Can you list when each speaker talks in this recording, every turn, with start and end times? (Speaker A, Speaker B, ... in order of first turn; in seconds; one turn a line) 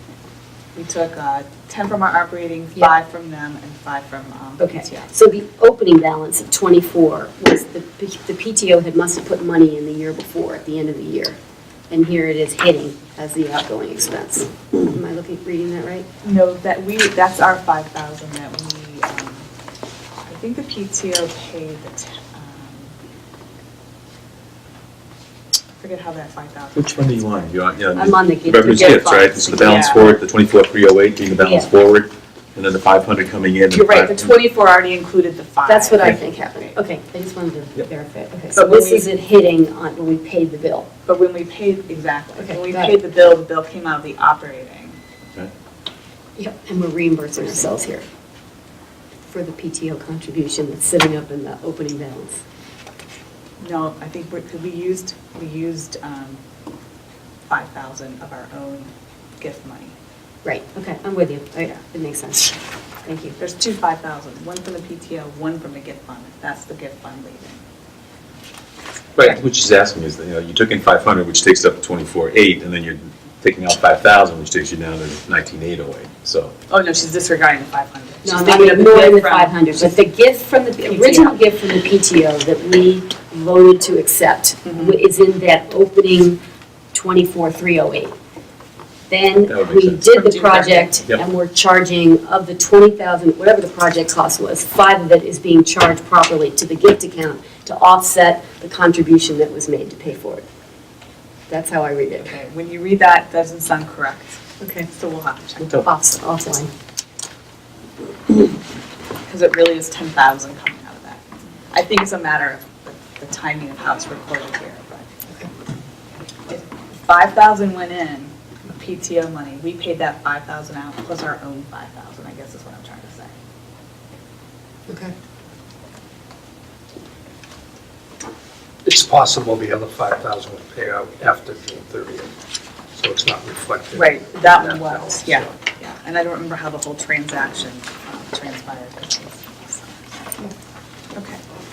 Speaker A: 0.8-5.1
Speaker B: 4.6-11.4
Speaker B: 11.9-16.1
Speaker A: 16.2-19.5
Speaker A: 20.3-22.9
Speaker A: 25.8-27.2
Speaker C: 26.8-34.3
Speaker B: 27.9-29.6
Speaker A: 28.6-30.1
Speaker B: 31.4-31.7
Speaker A: 33.7-36.8
Speaker B: 35.7-40.9
Speaker A: 38.5-39.1
Speaker A: 41.1-45.0
Speaker B: 42.4-43.0
Speaker B: 46.4-48.0
Speaker A: 47.4-47.7
Speaker B: 49.3-52.4
Speaker A: 53.6-56.4
Speaker A: 57.5-59.9
Speaker B: 60.4-62.5
Speaker B: 63.0-63.4
Speaker A: 63.4-67.6
Speaker C: 69.2-76.5
Speaker A: 76.7-80.0
Speaker B: 78.2-86.4
Speaker A: 80.8-81.4
Speaker A: 84.7-85.0
Speaker B: 86.9-88.2
Speaker B: 89.1-100.4
Speaker C: 89.5-90.1
Speaker A: 90.1-90.9
Speaker B: 101.5-102.3
Speaker A: 102.2-105.8
Speaker B: 104.6-104.9
Speaker B: 105.6-106.7
Speaker A: 109.2-115.1
Speaker A: 116.5-123.3
Speaker B: 124.9-125.1
Speaker D: 128.9-132.3
Speaker D: 132.9-135.5
Speaker A: 133.9-140.5
Speaker A: 141.1-141.4